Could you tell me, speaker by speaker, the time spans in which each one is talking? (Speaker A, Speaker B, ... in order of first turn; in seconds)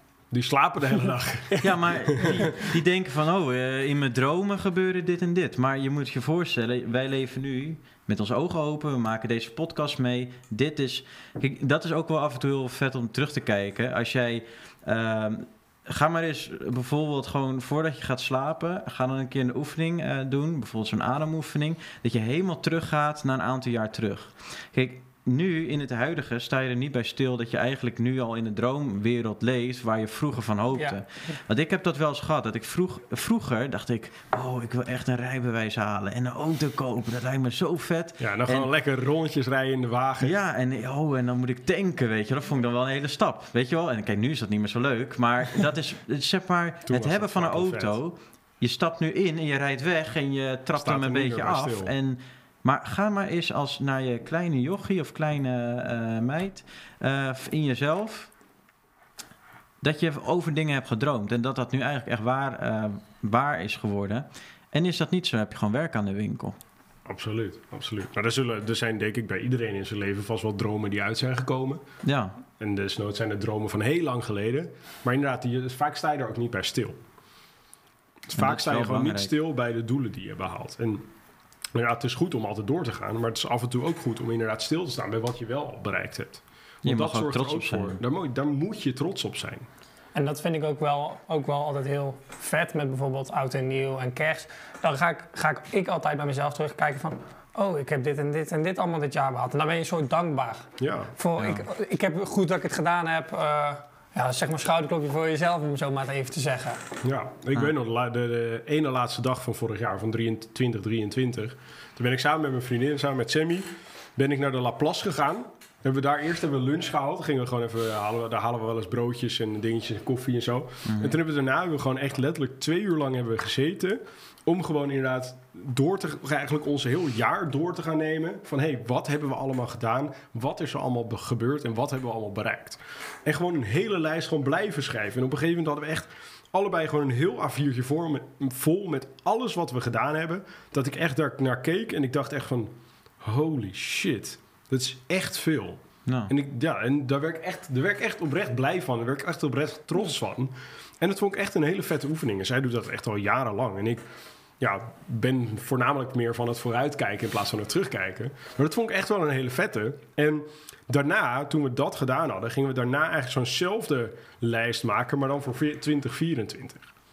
Speaker A: 0.3-2.5, 38.2-40.4, 46.9-48.0, 50.8-51.9, 67.0-71.8, 72.6-77.0, 78.3-81.1, 81.7-89.7, 100.8-101.1, 107.0-154.0, 154.6-166.8
Speaker B: 1.6-38.7, 40.2-58.3, 59.8-66.6, 72.0-72.4, 78.3-79.3, 86.8-88.0, 101.4-101.7, 120.8-121.2, 146.1-146.3
Speaker C: 30.7-31.0, 90.1-106.8